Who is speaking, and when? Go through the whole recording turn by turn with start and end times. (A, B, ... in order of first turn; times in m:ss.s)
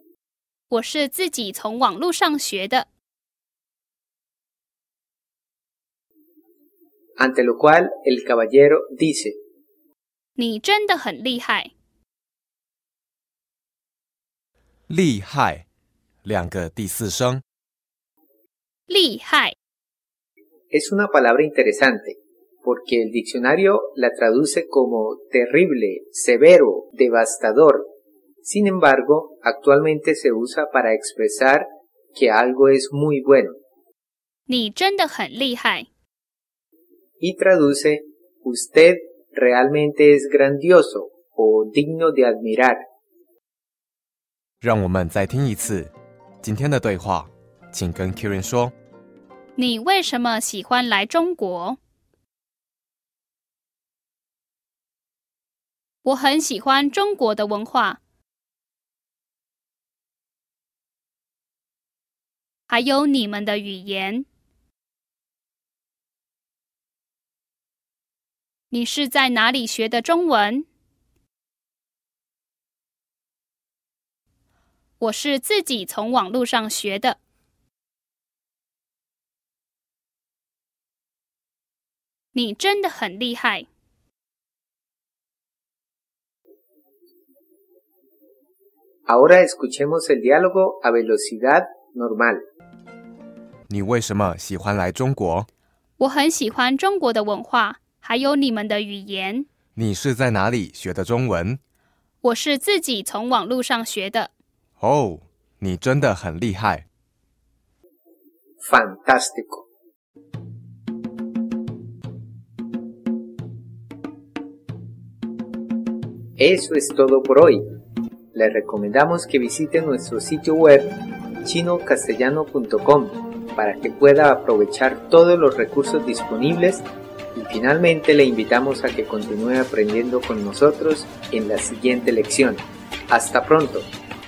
0:00.7-0:02.9 A
0:07.2-0:09.4 B
0:10.4-0:11.7 A
0:14.9-0:15.6 C
0:16.2-0:17.4 C
0:18.9-0:19.6 A
0:20.7-0:27.9 B
0:28.4-0:33.6 B
0:34.5-0:35.9 A
0:37.2-0:42.8 B
0:44.6-0:48.7 C
0:49.6-0:51.8 A
0:56.0-0:58.0 A
1:02.7-1:04.2 A
1:08.7-1:10.6 A
1:15.0-1:17.2 A
1:22.3-1:23.7 A
1:29.1-1:32.4 B
1:33.7-1:35.5 C
1:36.0-1:39.5 A
1:39.8-1:41.6 C
1:42.2-1:44.3 A
1:44.8-1:46.9 C
1:48.6-1:49.6 B
1:56.4-1:57.6 B
1:58.3-2:13.9 B